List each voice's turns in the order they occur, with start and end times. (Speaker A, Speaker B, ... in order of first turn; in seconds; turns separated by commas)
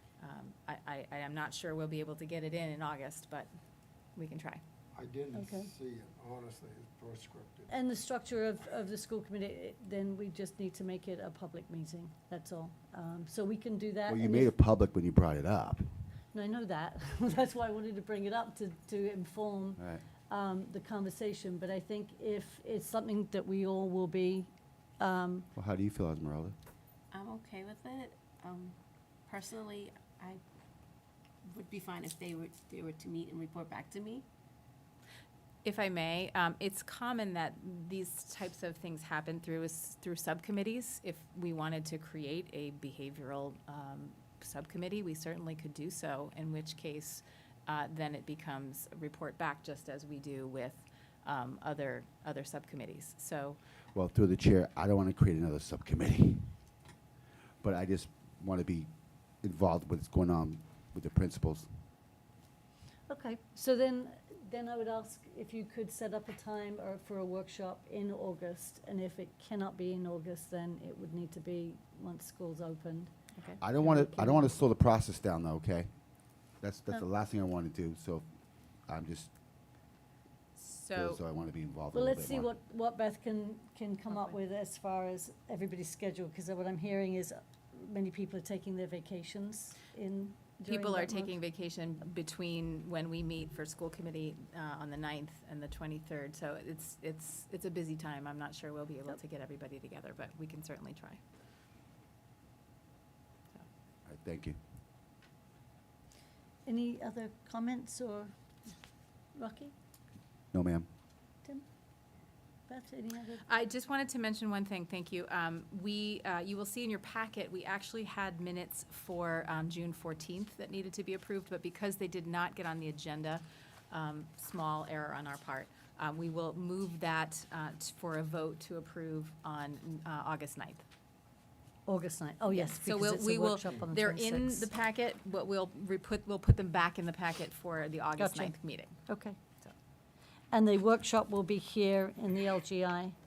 Speaker A: 0.2-3.5, Speaker A: 4.2-4.6, Speaker B: 4.9-7.7, Speaker C: 5.3-5.7, Speaker C: 7.7-14.5, Speaker D: 14.1-16.0, Speaker C: 16.3-25.5, Speaker D: 19.8-20.0, Speaker D: 25.6-26.5, Speaker E: 27.1-30.4, Speaker E: 31.4-34.2, Speaker A: 35.6-53.6, Speaker D: 53.9-56.5, Speaker D: 57.6-58.9, Speaker D: 59.4-61.7, Speaker C: 63.1-73.1, Speaker A: 73.3-74.2, Speaker D: 73.6-75.9, Speaker D: 76.6-78.2, Speaker D: 78.9-79.3, Speaker A: 80.6-81.2, Speaker D: 81.0-82.5, Speaker C: 81.9-91.3, Speaker A: 84.1-84.3, Speaker A: 90.6-101.2, Speaker D: 104.0-104.6, Speaker C: 106.7-108.3, Speaker C: 109.3-109.7, Speaker D: 110.5-110.9, Speaker C: 112.7-113.4, Speaker A: 113.4-130.8, Speaker C: 131.9-134.7, Speaker A: 132.5-139.0, Speaker C: 138.2-138.5, Speaker C: 139.1-139.4, Speaker C: 140.5-143.1